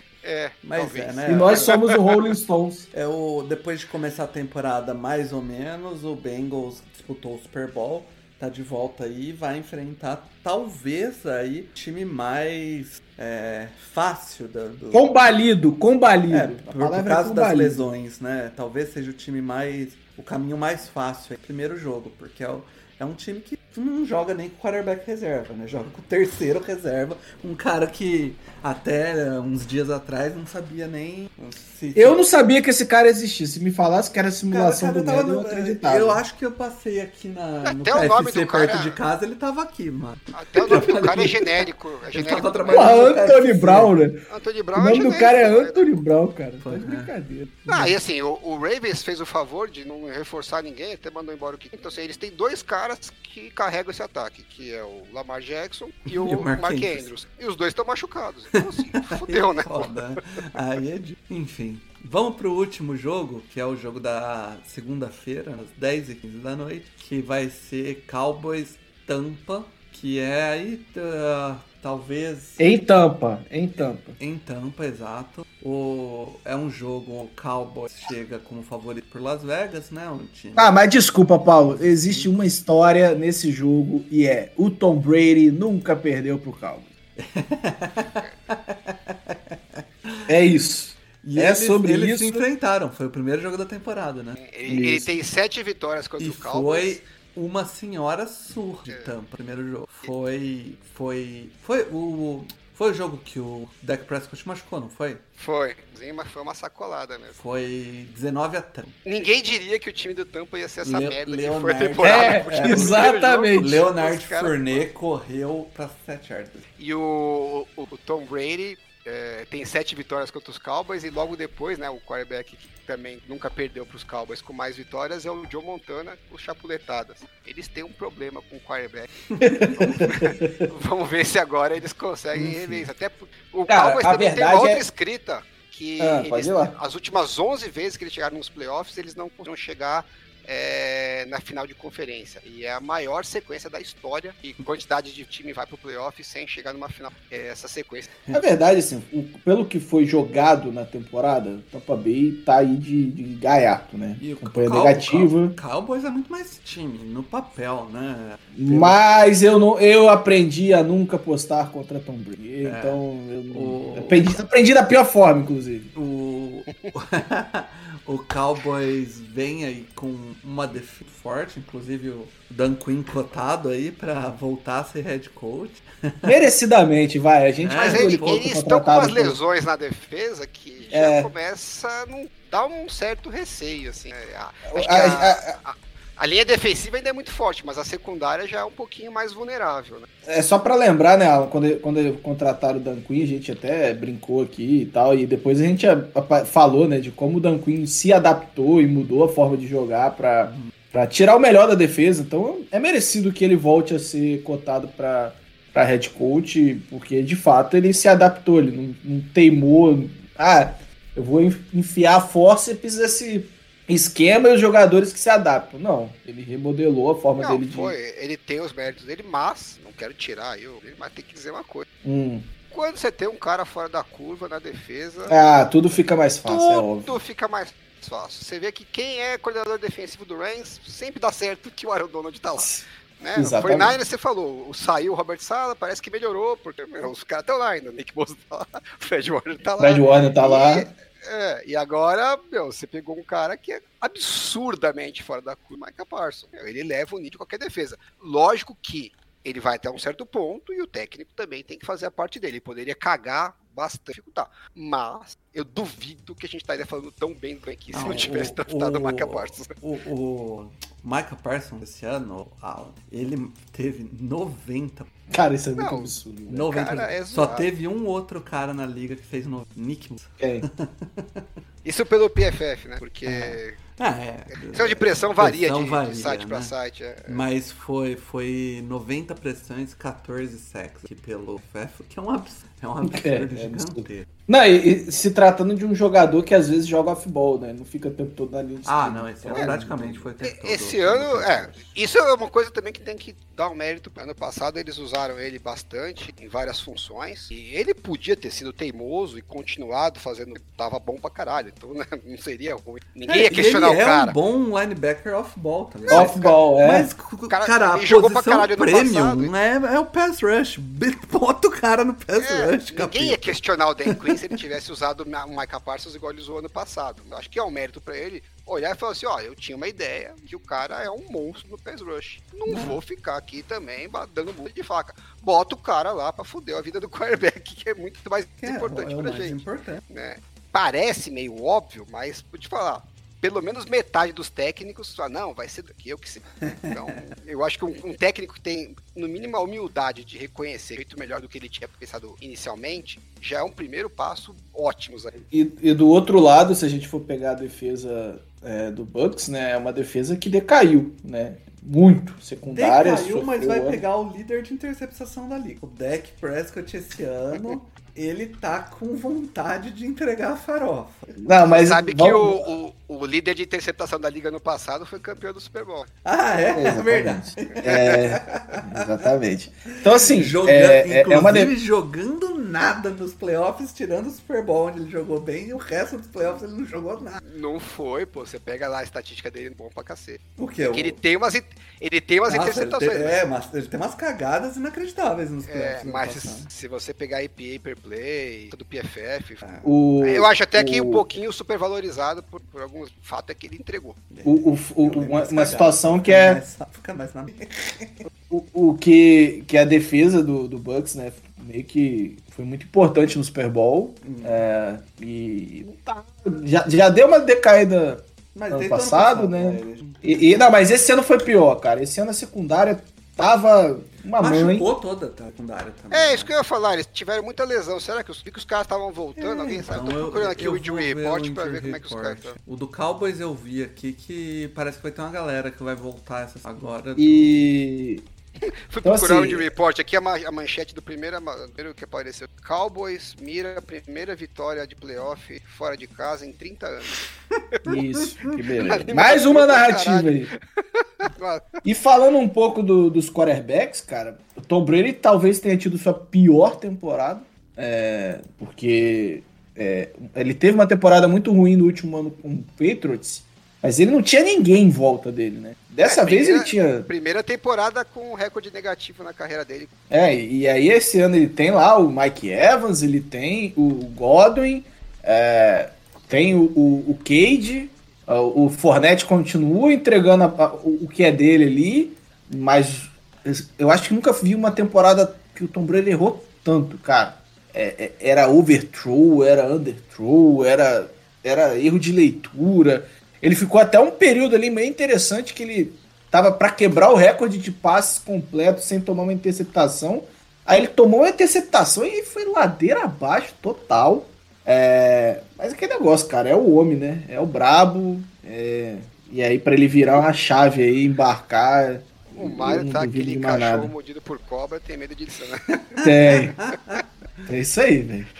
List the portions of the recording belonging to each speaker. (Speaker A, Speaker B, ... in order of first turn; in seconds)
Speaker A: 0.2-2.0, 37.6-39.0, 40.3-43.1, 44.3-45.9, 47.7-60.0, 94.4-97.0, 105.4-107.3, 109.0-114.8, 116.8-129.1, 130.1-148.1, 177.8-190.1, 217.4-221.9, 222.7-225.4, 226.5-259.7, 265.8-266.2, 266.7-267.7, 271.8-273.8, 274.5-277.4, 290.4-304.4, 306.0-306.6, 307.5-309.5, 312.4-345.4, 361.6-366.1, 367.8-368.6, 377.4-383.4, 385.7-394.2, 416.1-422.6, 428.7-437.2, 438.8-441.8, 456.0-459.9, 502.4-505.7
Speaker B: 0.6-1.8, 2.9-15.2, 16.3-32.2, 34.5-43.9, 46.6-47.1, 47.7-47.9, 56.1-57.1, 58.6-72.8, 74.2-80.8, 81.7-82.3, 87.2-90.3, 91.2-94.4, 96.2-105.2, 107.3-109.0, 110.8-116.7, 154.2-159.0, 162.6-164.4, 166.0-176.4, 177.6-178.4, 257.9-265.1, 266.5-271.5, 273.2-276.7, 277.3-284.3, 288.9-291.9, 303.3-313.6, 322.7-323.0, 328.6-330.0, 336.7-337.2, 352.7-361.3, 366.2-369.3, 369.9-377.4, 380.6-381.2, 382.5-386.7, 394.3-398.3, 404.2-404.7, 408.5-410.6, 414.4-416.5, 419.4-427.7, 437.8-438.6, 505.9-507.5
Speaker C: 1.3-2.9, 14.9-17.9, 31.9-36.2, 42.7-44.2, 44.8-47.6, 72.6-74.2, 80.6-86.9, 90.3-92.5, 94.7-95.1, 112.0-113.8, 129.4-130.5, 132.3-132.9, 133.7-134.8, 136.0-136.8, 148.3-155.6, 158.6-165.9, 176.2-179.4, 180.9-181.3, 184.7-185.5, 190.2-217.9, 222.0-222.5, 225.3-227.1, 232.6-232.8, 233.4-234.0, 239.8-240.9, 265.3-266.7, 270.4-270.7, 283.0-290.3, 306.1-307.1, 345.4-354.0, 361.4-362.7, 366.7-371.7, 389.8-391.2, 394.4-396.6, 398.5-414.9, 427.2-428.2, 429.0-429.7, 437.9-440.5, 441.8-457.1, 460.1-503.9, 506.0-506.6, 507.5-508.3